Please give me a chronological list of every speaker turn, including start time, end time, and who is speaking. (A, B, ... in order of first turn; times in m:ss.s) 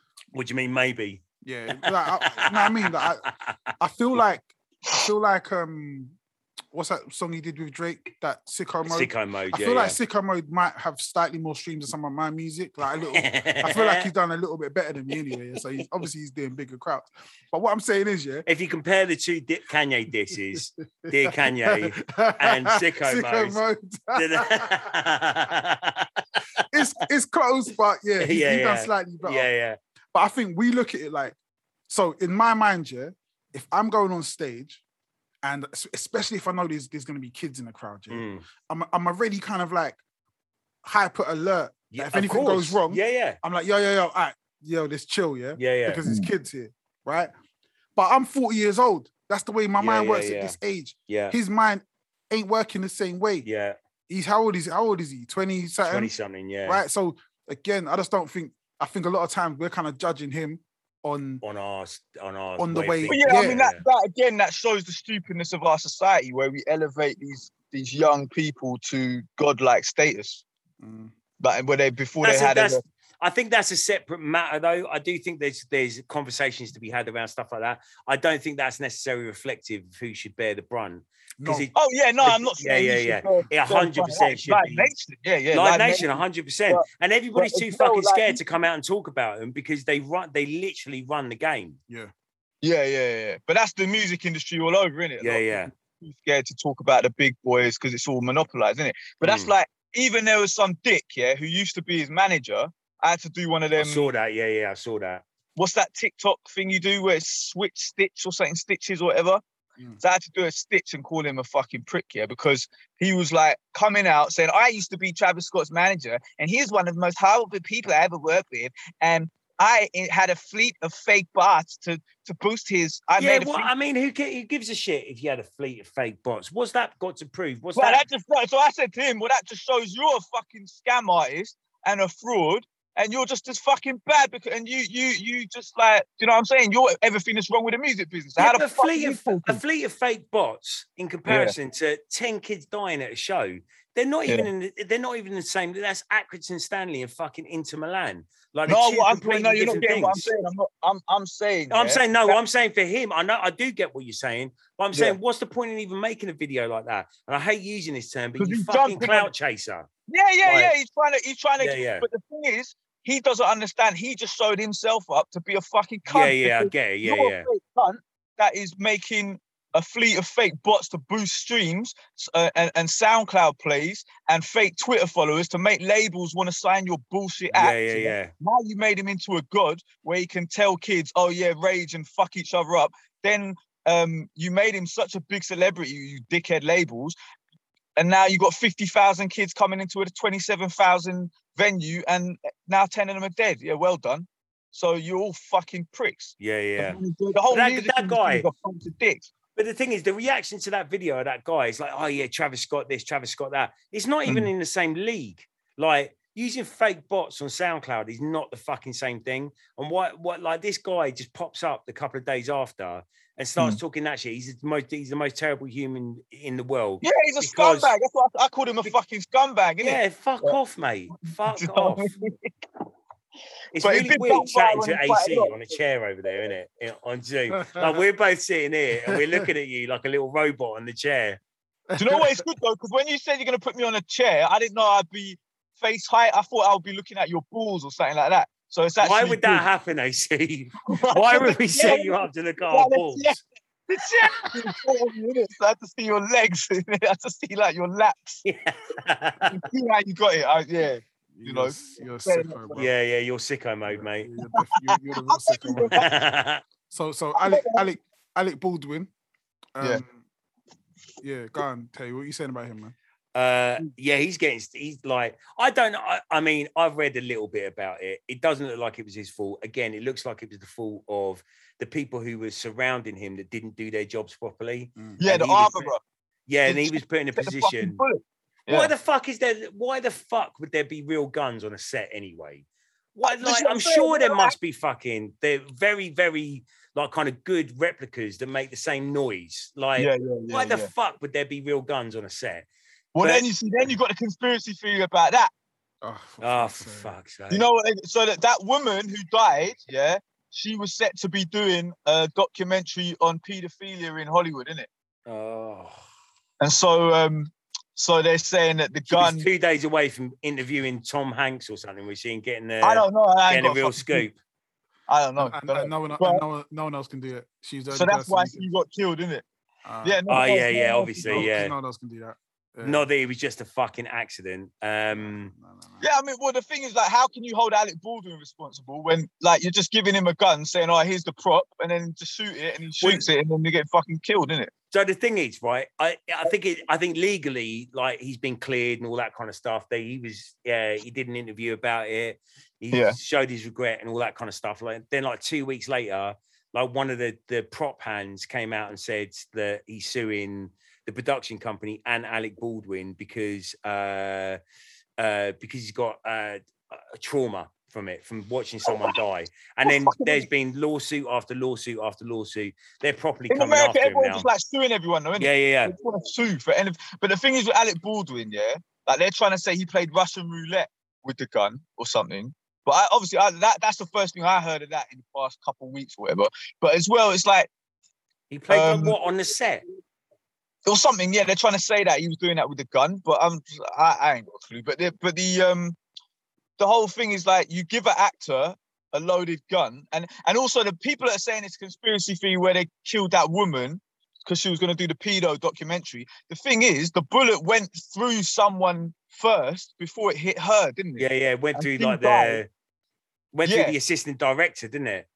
0:00.3-0:03.6 A
0:01.4-0:03.2 B
0:03.8-0:06.2 B
0:06.7-0:18.5 B
0:08.9-0:10.0 A
0:13.1-0:14.1 A
0:18.5-0:23.6 A
0:20.6-0:24.9 B
0:24.2-0:26.7 A
0:26.7-0:29.5 B
0:28.2-0:29.8 A
0:30.1-0:31.4 B
0:31.9-0:34.8 B
0:35.4-0:40.0 B
0:38.1-0:38.4 A
0:40.8-0:47.3 B
0:41.9-0:43.4 A
0:45.6-0:46.0 A
0:48.0-0:53.5 B
0:49.8-0:50.6 A
0:51.1-0:51.4 A
0:53.4-0:53.8 A
0:54.1-0:56.1 B
0:55.8-0:56.8 A
0:56.7-1:01.4 B
1:01.4-1:03.8 A
1:02.6-1:03.6 B
1:03.1-1:10.4 C
1:10.8-1:11.1 B
1:11.4-1:12.8 C
1:12.2-1:24.9 A
1:21.4-1:21.7 B
1:21.8-1:26.8 C
1:25.5-1:31.8 A
1:27.4-1:28.4 C
1:32.6-1:44.1 C
1:35.2-1:35.7 A
1:39.2-1:39.5 A
1:43.8-1:45.2 A
1:45.6-1:49.4 C
1:50.0-2:03.7 C
2:03.2-2:08.0 A
2:07.8-2:19.6 C
2:18.4-2:30.3 A
2:21.3-2:21.5 C
2:28.7-2:32.4 C
2:31.7-2:39.9 A
2:34.9-2:35.2 C
2:38.4-2:39.3 C
2:40.1-3:07.2 C
2:40.4-2:40.7 A
2:41.6-2:42.1 A
2:46.1-2:47.5 A
2:57.5-2:58.3 A
3:08.0-3:19.3 C
3:16.4-3:17.0 A
3:17.5-3:18.5 A
3:19.6-3:37.9 A
3:37.0-3:40.6 C
3:39.8-3:42.1 A
3:41.4-3:42.5 C
3:43.7-3:51.4 A
3:43.8-3:45.6 C
3:49.1-3:49.4 B
3:51.9-3:52.4 B
3:52.0-3:59.6 C
3:59.0-4:03.4 A
4:00.9-4:08.4 C
4:08.4-4:09.6 A
4:09.5-4:12.8 C
4:11.3-4:12.9 B
4:12.8-4:14.3 A
4:13.9-4:16.0 B
4:14.6-4:16.0 C
4:15.9-4:16.6 A
4:16.9-4:19.1 B
4:17.4-4:17.8 C
4:19.8-4:20.2 B
4:21.2-4:23.0 B
4:23.4-4:35.9 A
4:35.2-4:36.0 C
4:36.5-4:38.0 A
4:36.7-4:38.9 C
4:38.7-4:42.6 A
4:43.2-4:52.7 A
4:43.2-4:44.6 C
4:50.0-4:50.9 C
4:53.2-4:55.5 C
4:53.2-4:53.5 A
4:56.0-4:57.1 B
4:56.4-4:57.7 A
4:57.5-5:04.9 C
5:05.3-5:06.0 A
5:06.6-5:09.5 C
5:09.1-5:14.4 A
5:12.8-5:14.3 C
5:15.1-5:16.4 C
5:15.4-5:18.7 B
5:17.9-5:19.4 C
5:19.8-5:20.5 B
5:20.0-5:21.5 C
5:20.3-5:21.7 A
5:21.2-5:23.1 B
5:22.8-5:25.5 A
5:25.1-5:26.0 B
5:26.0-5:34.7 C
5:34.9-5:54.6 A
5:42.9-5:43.2 C
5:55.2-6:04.5 A
5:58.9-5:59.1 C
5:59.8-6:00.5 C
6:03.5-6:17.7 C
6:05.4-6:05.9 A
6:18.5-6:19.8 A
6:18.7-6:19.2 C
6:20.8-6:26.0 C
6:26.8-6:42.6 C
6:41.2-6:42.7 A
6:43.5-6:45.3 A
6:43.6-6:44.0 C